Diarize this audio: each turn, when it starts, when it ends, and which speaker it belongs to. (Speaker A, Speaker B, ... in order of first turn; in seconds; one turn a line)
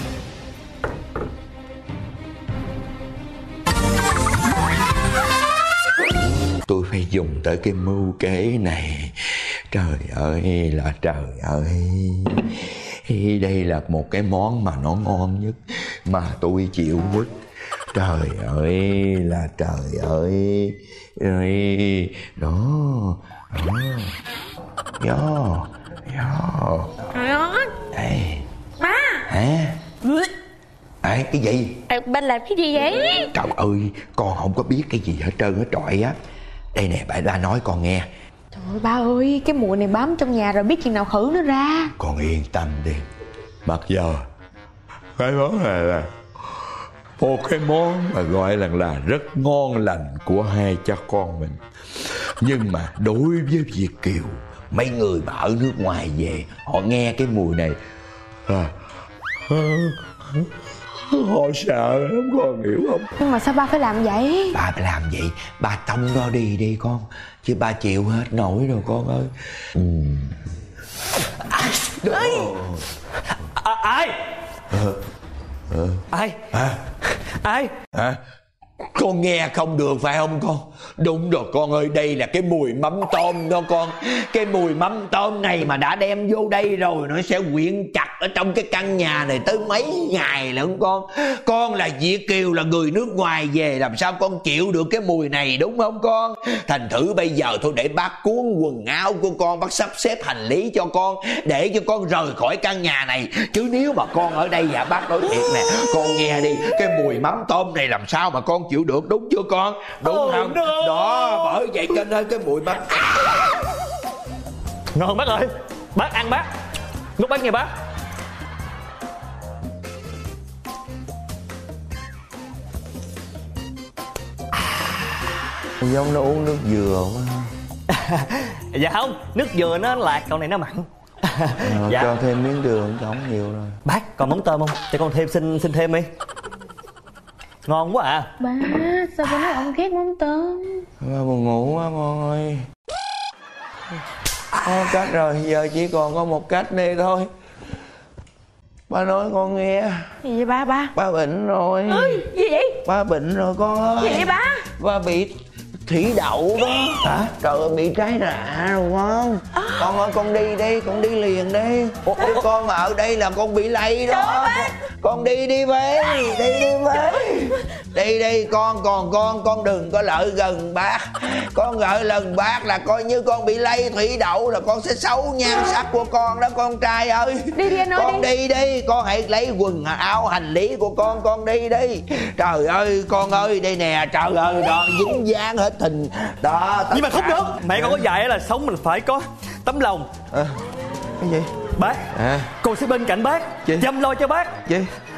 Speaker A: 6.7-17.3
Speaker A: 17.9-24.1
Speaker A: 25.0-27.1
Speaker B: 27.1-27.7
Speaker A: 27.9-28.4
Speaker B: 28.8-29.2
Speaker A: 29.2-29.8
Speaker A: 31.0-31.7
Speaker B: 31.9-33.3
Speaker A: 33.3-36.1
Speaker A: 36.7-38.1
Speaker B: 38.5-41.9
Speaker A: 42.0-43.0
Speaker A: 43.6-44.2
Speaker A: 45.2-46.1
Speaker A: 47.2-57.8
Speaker A: 58.5-58.7
Speaker A: 59.5-63.1
Speaker B: 63.2-64.6
Speaker A: 64.5-70.3
Speaker A: 71.8-72.8
Speaker C: 73.4-74.1
Speaker A: 74.7-75.0
Speaker A: 75.7-76.0
Speaker C: 76.1-77.7
Speaker A: 77.9-78.2
Speaker A: 78.9-113.3
Speaker C: 110.0-111.6
Speaker C: 114.9-116.5
Speaker C: 117.2-117.7
Speaker A: 125.8-127.5
Speaker C: 127.9-132.1
Speaker A: 131.6-133.8
Speaker C: 133.8-136.1
Speaker C: 137.6-138.3
Speaker B: 138.4-140.8
Speaker A: 141.0-142.6
Speaker A: 144.6-147.3
Speaker A: 148.9-150.1
Speaker B: 150.2-150.9
Speaker A: 150.9-152.3
Speaker B: 151.9-152.8
Speaker A: 152.8-155.3
Speaker B: 154.0-154.6
Speaker A: 155.9-188.0
Speaker C: 162.1-162.4
Speaker B: 164.2-164.7
Speaker B: 177.6-178.3
Speaker C: 186.9-190.1
Speaker A: 190.3-190.6
Speaker A: 191.2-191.5
Speaker C: 191.8-192.1
Speaker A: 192.1-192.5
Speaker C: 192.6-194.6